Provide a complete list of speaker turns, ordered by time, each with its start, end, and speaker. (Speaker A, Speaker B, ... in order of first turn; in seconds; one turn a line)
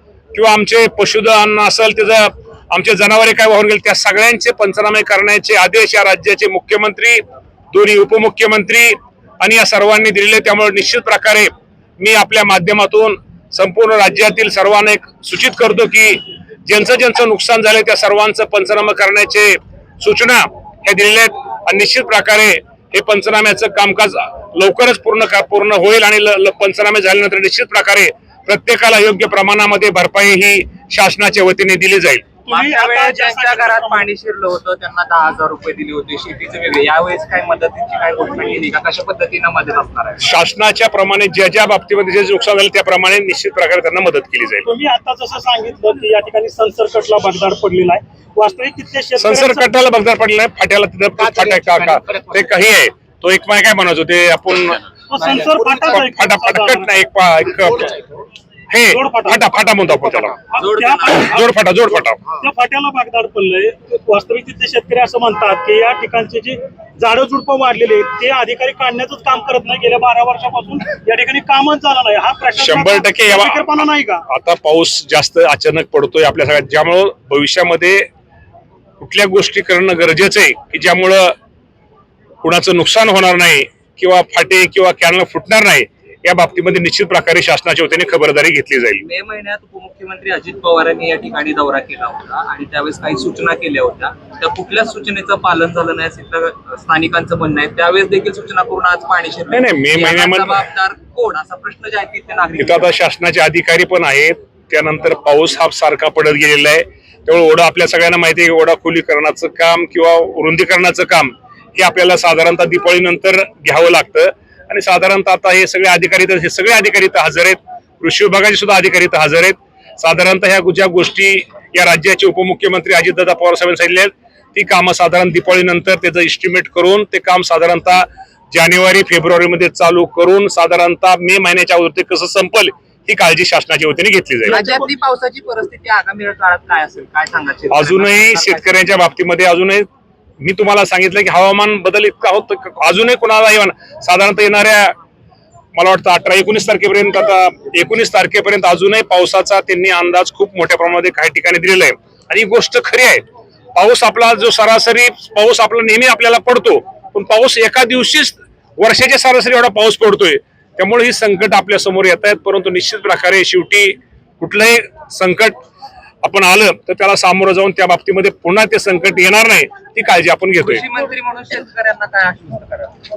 Speaker A: 0.3-32.2
Speaker B: 32.5-34.1
Speaker C: 32.5-40.2
Speaker A: 40.2-44.7
Speaker B: 44.6-49.7
Speaker A: 49.2-54.8
Speaker C: 51.2-52.4
Speaker B: 55.1-56.9
Speaker C: 55.2-56.0
Speaker A: 56.1-57.9
Speaker A: 58.7-60.4
Speaker B: 58.9-61.5
Speaker C: 60.5-61.5
Speaker A: 61.3-62.2
Speaker B: 62.4-74.2
Speaker A: 72.6-78.1
Speaker A: 79.0-81.3
Speaker A: 82.4-89.0
Speaker C: 89.0-102.9
Speaker A: 99.5-100.6
Speaker A: 102.6-134.6
Speaker B: 134.4-134.9
Speaker C: 134.5-138.8
Speaker A: 137.7-139.9
Speaker A: 140.4-144.9
Speaker A: 145.8-153.2
Speaker A: 153.8-165.6
Speaker A: 166.2-170.8
Speaker C: 170.6-172.9